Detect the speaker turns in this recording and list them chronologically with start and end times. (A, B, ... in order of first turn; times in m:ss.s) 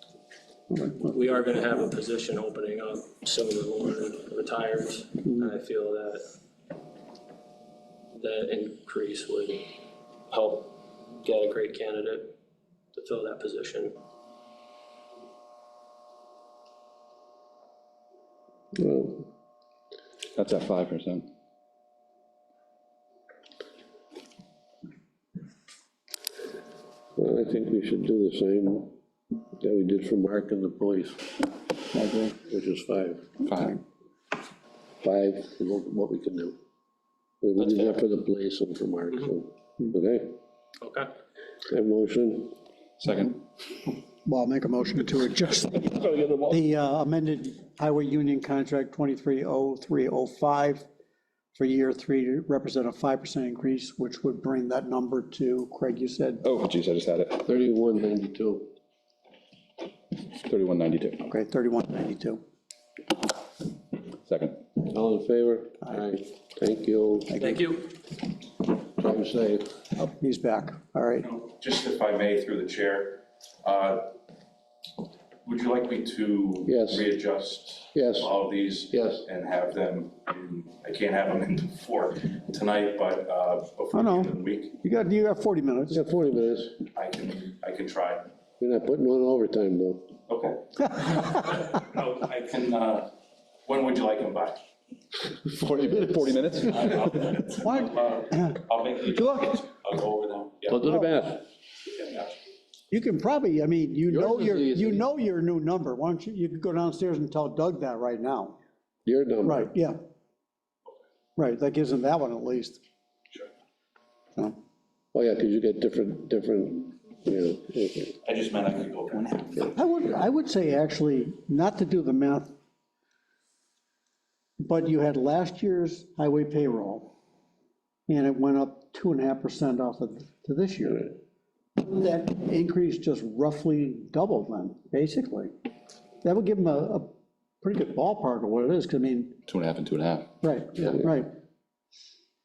0:00.7-0:01.1 A
0:01.0-0:06.3 B
0:08.1-0:09.7 B
0:10.3-0:12.3 B
0:12.9-0:14.0 B
0:18.8-0:19.3 C
0:20.3-0:21.3 D
0:27.2-0:28.9 C
0:29.6-0:31.4 C
0:31.9-0:32.4 A
0:32.5-0:33.3 C
0:33.5-0:33.7 E
0:35.0-0:36.6 C
0:37.4-0:40.3 C
0:37.6-0:38.0 B
0:40.8-0:41.1 B
0:41.7-0:42.5 C
0:43.0-0:43.4 E
0:44.2-0:50.9 A
0:51.5-0:56.4 A
0:56.4-0:57.4 D
0:57.4-0:58.7 C
1:00.4-1:01.2 D
1:01.3-1:02.4 A
1:04.3-1:04.6 D
1:04.7-1:07.3 C
1:07.3-1:07.6 A
1:07.3-1:07.9 B
1:09.0-1:09.6 C
1:10.0-1:11.3 A
1:11.2-1:14.1 E
1:15.4-1:24.8 E
1:16.6-1:17.1 C
1:17.9-1:18.3 C
1:18.9-1:19.2 C
1:23.9-1:26.0 A
1:25.9-1:26.8 C
1:26.9-1:28.3 E
1:28.6-1:30.1 C
1:30.3-1:33.1 E
1:33.6-1:34.6 E
1:35.5-1:37.4 D
1:36.7-1:40.8 E
1:37.6-1:39.5 A
1:40.7-1:41.4 C
1:40.9-1:41.1 A
1:42.0-1:42.3 E
1:42.9-1:48.6 A
1:44.1-1:45.0 C
1:49.0-1:49.7 C
1:49.4-1:50.0 A
1:51.4-1:52.8 A
1:55.1-1:58.2 C
1:58.2-1:59.5 E
1:59.5-2:02.5 A
2:04.6-2:07.1 A
2:08.1-2:11.1 A
2:11.8-2:15.5 A
2:16.2-2:17.1 A
2:17.6-2:19.4 A
2:19.5-2:20.3 D
2:20.4-2:21.3 A